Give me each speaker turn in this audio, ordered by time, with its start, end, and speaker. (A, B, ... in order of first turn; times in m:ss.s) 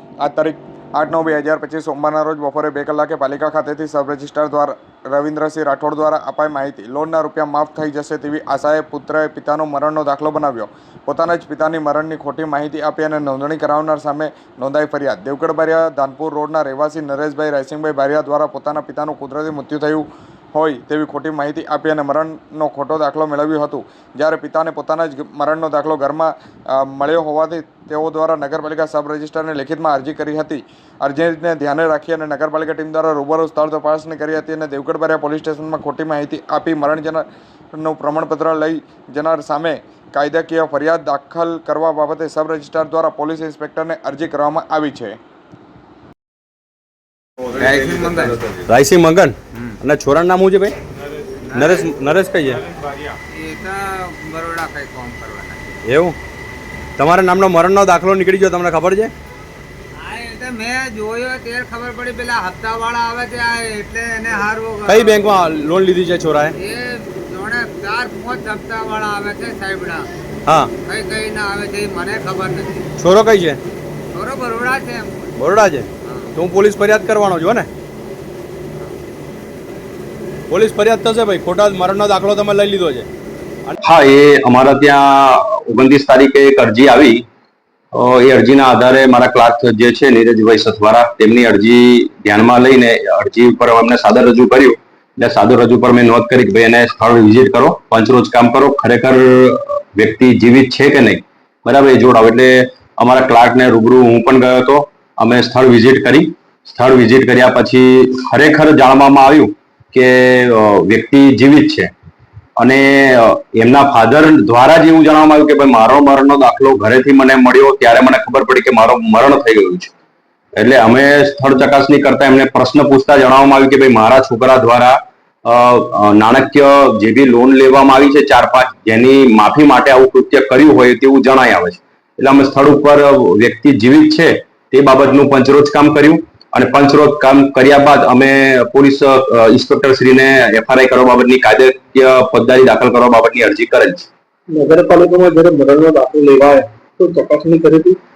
0:00.2-0:45.2 A
0:47.6-0:48.4 B
0:48.7-0:50.8 C
0:51.5-0:51.9 B
0:51.5-0:52.6 C
0:53.3-0:55.7 B
0:55.8-0:56.2 C
0:57.0-0:59.1 C
1:00.0-1:05.3 B
1:04.9-1:06.6 C
1:06.5-1:10.0 B
1:10.5-1:10.7 C
1:10.8-1:12.9 B
1:13.0-1:13.6 C
1:14.1-1:15.3 B
1:15.4-1:17.7 C
1:20.5-1:23.1 C
1:23.8-1:27.2 D
1:27.9-1:51.9 D
1:52.6-1:59.9 D
2:00.6-2:24.1 D
2:24.5-2:28.0 E